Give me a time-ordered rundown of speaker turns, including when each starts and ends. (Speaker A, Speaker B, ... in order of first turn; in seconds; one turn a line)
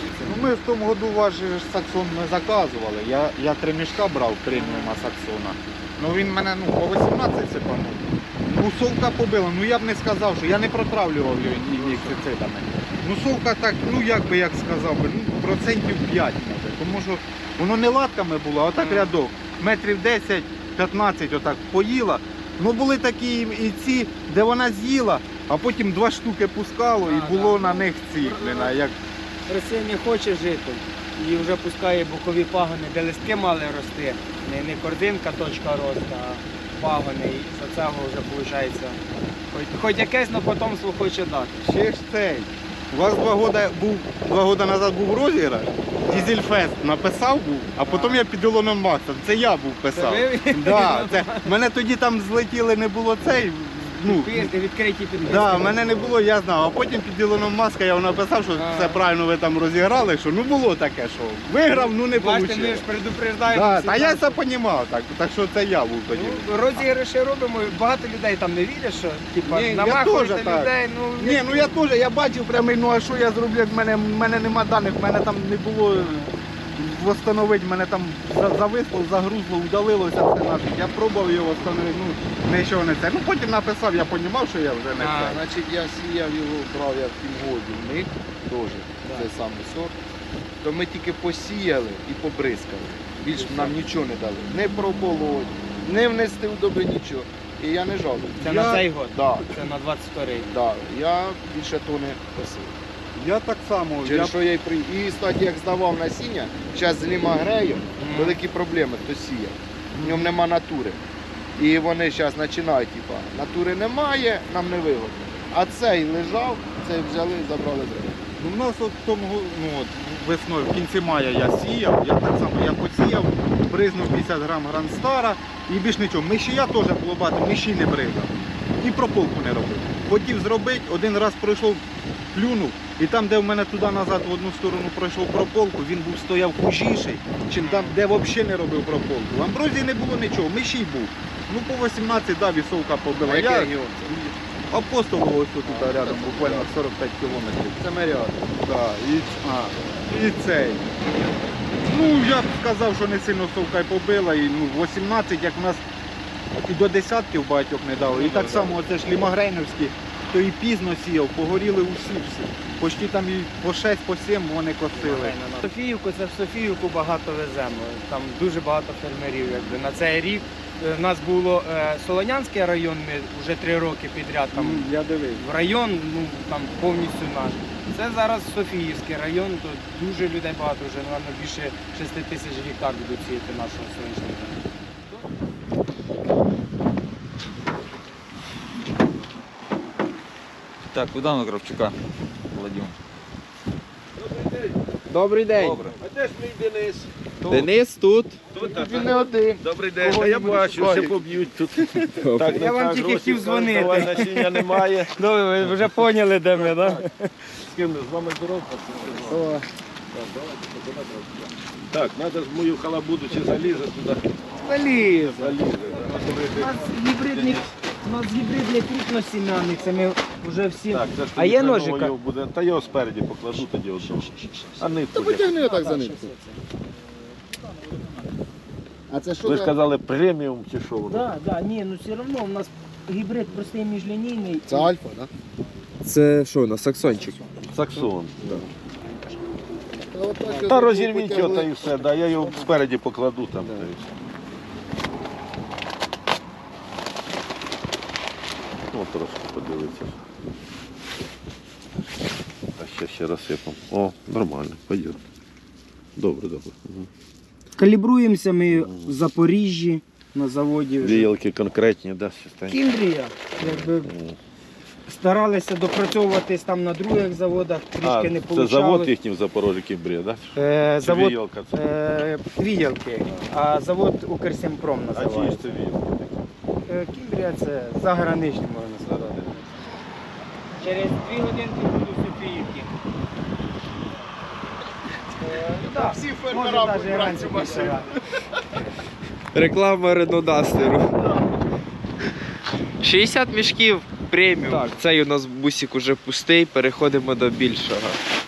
Speaker A: 0.2-28.9
Speaker B: 4.5-5.0
Speaker B: 18.8-19.2
Speaker B: 27.0-28.7
Speaker B: 29.5-39.0
Speaker B: 39.5-41.6
Speaker A: 41.6-54.5
Speaker B: 46.0-46.4
Speaker B: 47.8-48.2
Speaker B: 49.9-51.5
Speaker B: 54.0-56.1
Speaker A: 55.2-62.8
Speaker B: 58.5-59.0
Speaker B: 61.7-64.4
Speaker A: 63.5-66.8
Speaker B: 66.1-71.8
Speaker A: 69.5-85.4
Speaker B: 75.9-76.3
Speaker B: 85.0-85.4
Speaker C: 85.2-89.9
Speaker B: 89.0-89.3
Speaker C: 90.6-98.4
Speaker B: 93.3-93.8
Speaker A: 98.3-98.8
Speaker B: 98.4-100.5
Speaker C: 99.1-99.5
Speaker C: 100.4-102.8
Speaker A: 103.1-104.4
Speaker C: 104.0-111.0
Speaker B: 108.0-108.4
Speaker A: 110.0-110.3
Speaker C: 111.5-118.2
Speaker A: 118.4-147.8
Speaker B: 137.6-138.0
Speaker C: 143.2-144.2
Speaker C: 145.6-146.7
Speaker C: 147.8-148.5
Speaker A: 148.6-150.8
Speaker A: 151.9-155.8
Speaker A: 156.5-165.3
Speaker B: 158.1-158.7
Speaker B: 164.9-184.6
Speaker A: 174.5-175.4
Speaker D: 190.9-191.9
Speaker D: 192.5-193.0
Speaker E: 194.2-194.7
Speaker F: 195.1-195.9
Speaker D: 195.6-195.9
Speaker E: 196.0-197.7
Speaker F: 197.5-198.3
Speaker E: 198.5-205.1
Speaker C: 198.6-201.1
Speaker B: 200.1-200.6
Speaker F: 202.2-202.6
Speaker B: 202.5-207.3
Speaker E: 206.5-207.0
Speaker E: 207.6-209.4
Speaker B: 209.3-209.7
Speaker E: 210.1-214.3
Speaker B: 214.6-222.1
Speaker E: 215.2-217.7
Speaker E: 220.9-225.6
Speaker B: 224.0-225.0
Speaker C: 225.1-226.3
Speaker B: 225.5-226.6
Speaker C: 229.1-229.8
Speaker E: 229.4-231.3
Speaker B: 231.1-234.9
Speaker C: 234.7-235.3
Speaker F: 236.0-237.4
Speaker E: 237.7-238.7
Speaker C: 240.1-242.1
Speaker E: 240.4-244.0
Speaker E: 248.9-250.2
Speaker E: 252.8-255.2
Speaker E: 256.2-257.1
Speaker B: 257.8-261.3
Speaker E: 258.7-259.1
Speaker E: 261.0-262.8
Speaker B: 262.7-264.1
Speaker E: 263.6-264.4
Speaker B: 265.1-269.1
Speaker E: 268.0-271.8
Speaker B: 270.5-275.8
Speaker E: 275.1-276.4
Speaker B: 276.9-279.5
Speaker E: 279.0-279.6
Speaker B: 280.8-282.9
Speaker B: 285.4-288.1
Speaker C: 285.8-288.1
Speaker F: 289.5-291.1
Speaker F: 293.0-298.2